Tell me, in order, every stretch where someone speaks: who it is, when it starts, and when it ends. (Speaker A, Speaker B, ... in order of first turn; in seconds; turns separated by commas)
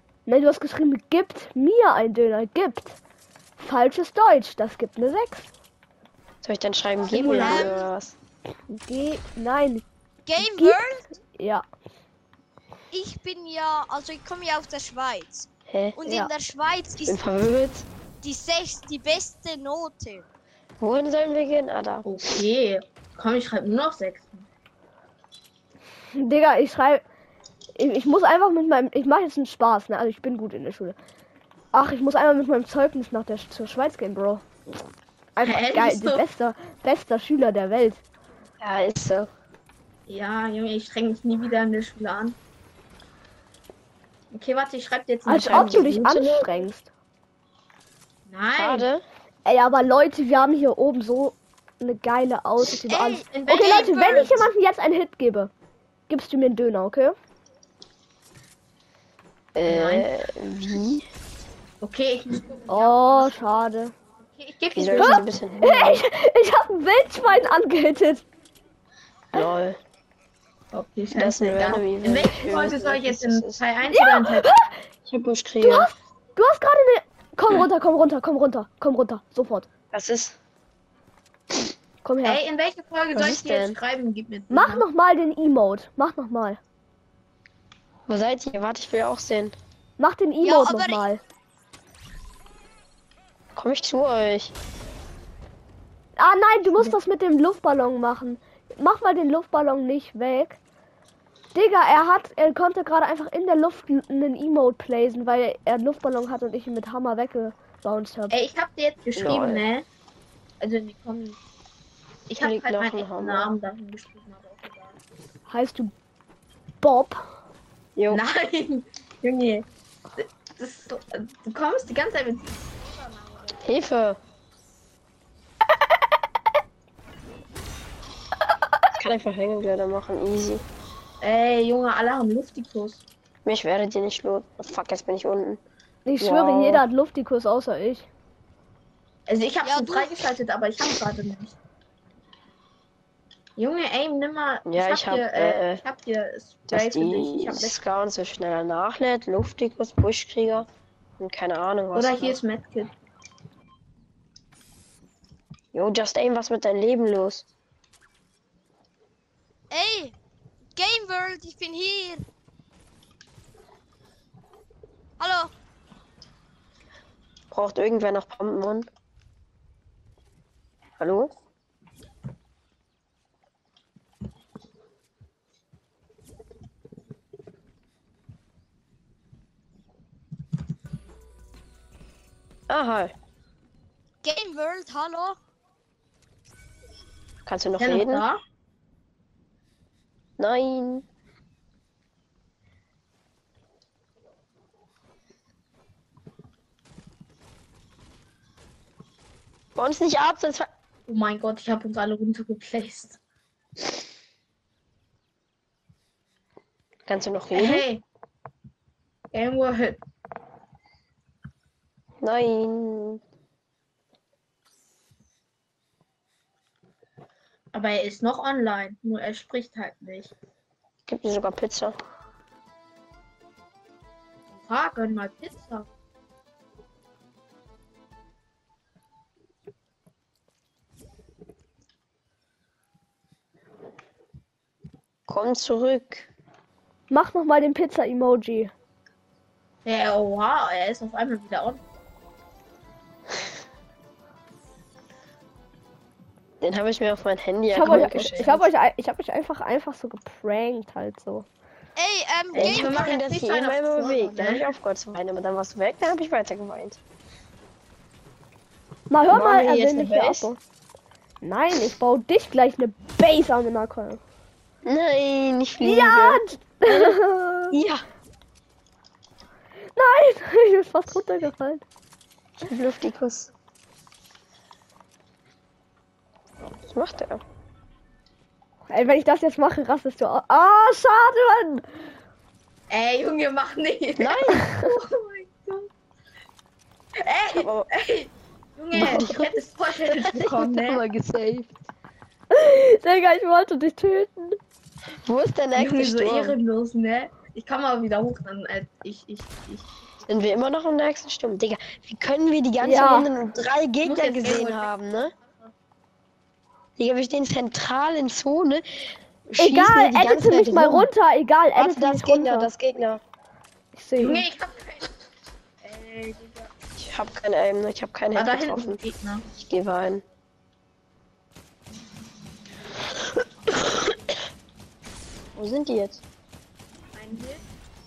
Speaker A: 0.3-3.0, Speaker A: 3.6-5.5, Speaker B: 6.4-8.2, Speaker C: 7.0-7.8, Speaker D: 7.3-7.9, Speaker A: 8.7-9.8, Speaker D: 10.3-11.1, Speaker A: 10.4-11.7, Speaker D: 12.9-17.2, Speaker B: 15.7-16.0, Speaker B: 17.0-17.9, Speaker D: 18.2-20.3, Speaker B: 20.8-22.1, Speaker C: 22.1-24.5, Speaker A: 26.1-27.0, Speaker A: 27.8-31.0, Speaker A: 31.7-34.4, Speaker A: 35.4-38.0, Speaker C: 35.4-36.2, Speaker B: 38.6-39.3, Speaker C: 40.1-42.4, Speaker C: 44.3-45.9, Speaker A: 45.3-46.9, Speaker B: 45.3-46.7, Speaker C: 48.3-48.9, Speaker B: 48.6-49.0, Speaker A: 49.5-55.5, Speaker D: 52.9-54.3, Speaker C: 53.3-54.5, Speaker A: 56.1-57.2, Speaker B: 59.6-61.1, Speaker C: 59.7-60.1, Speaker C: 61.8-63.4, Speaker A: 62.7-63.9, Speaker C: 64.3-65.3, Speaker B: 64.7-66.0, Speaker A: 65.0-68.2, Speaker B: 69.3-69.8, Speaker C: 70.7-74.5, Speaker B: 71.1-73.6, Speaker A: 73.9-74.7, Speaker B: 75.1-75.9, Speaker A: 75.6-79.7, Speaker B: 79.9-80.3, Speaker A: 82.0-82.4, Speaker C: 82.2-84.9, Speaker B: 83.1-83.8, Speaker A: 84.5-86.6, Speaker B: 88.1-89.5, Speaker A: 90.0-91.2, Speaker D: 90.4-91.1, Speaker B: 93.5-94.5, Speaker A: 96.2-100.6, Speaker A: 101.5-108.4, Speaker C: 108.3-109.9, Speaker B: 109.2-109.7, Speaker C: 110.6-111.4, Speaker C: 112.3-115.0, Speaker B: 112.4-113.5, Speaker A: 115.5-115.9, Speaker A: 116.8-117.2, Speaker B: 118.0-118.2, Speaker C: 118.1-119.7, Speaker C: 120.2-123.6, Speaker B: 123.6-124.2, Speaker B: 129.0-130.6, Speaker C: 131.2-133.1, Speaker B: 133.4-135.6, Speaker A: 136.1-138.1, Speaker B: 136.2-136.9, Speaker C: 139.3-141.6, Speaker D: 139.6-140.3, Speaker C: 143.6-147.8, Speaker B: 144.7-145.8, Speaker B: 146.7-150.7, Speaker B: 151.2-152.4, Speaker C: 151.9-152.9, Speaker B: 155.7-157.5, Speaker D: 159.7-160.2, Speaker D: 160.8-162.2, Speaker D: 165.2-165.5, Speaker B: 167.5-168.9, Speaker B: 171.0-171.3, Speaker B: 182.7-183.1, Speaker D: 184.2-185.4, Speaker B: 187.4-188.2, Speaker C: 187.8-188.4, Speaker B: 190.4-191.1, Speaker B: 199.8-200.7, Speaker C: 201.1-203.2, Speaker B: 207.1-207.9, Speaker C: 207.5-208.0, Speaker C: 209.3-210.0, Speaker B: 212.2-213.2, Speaker C: 217.7-220.3, Speaker B: 221.1-222.0, Speaker C: 224.5-225.9, Speaker B: 235.3-236.3, Speaker A: 237.1-238.7, Speaker C: 239.8-241.8, Speaker B: 246.6-248.7, Speaker A: 247.7-251.5, Speaker D: 252.0-253.0, Speaker B: 252.5-257.0, Speaker C: 252.5-254.7, Speaker A: 259.1-260.6, Speaker B: 259.3-260.5, Speaker A: 261.4-264.2, Speaker B: 264.9-267.2, Speaker A: 265.8-267.8, Speaker B: 267.7-268.0, Speaker A: 269.9-271.8, Speaker B: 272.6-273.5, Speaker B: 276.9-277.4, Speaker A: 278.9-281.8, Speaker C: 282.9-285.9, Speaker B: 284.2-284.7, Speaker C: 287.2-291.0, Speaker B: 287.5-287.9, Speaker B: 288.9-289.5, Speaker B: 290.1-291.7, Speaker A: 292.5-294.6, Speaker B: 295.3-296.6, Speaker C: 295.8-299.9, Speaker B: 300.3-305.3, Speaker A: 302.8-303.3, Speaker C: 304.0-305.7, Speaker B: 307.0-311.1, Speaker A: 309.6-312.7, Speaker B: 311.8-313.2, Speaker A: 313.9-314.5, Speaker C: 314.2-315.1, Speaker C: 315.8-316.7, Speaker B: 317.0-319.0, Speaker C: 318.4-319.4, Speaker B: 319.6-320.2, Speaker B: 325.6-326.2, Speaker C: 327.1-327.6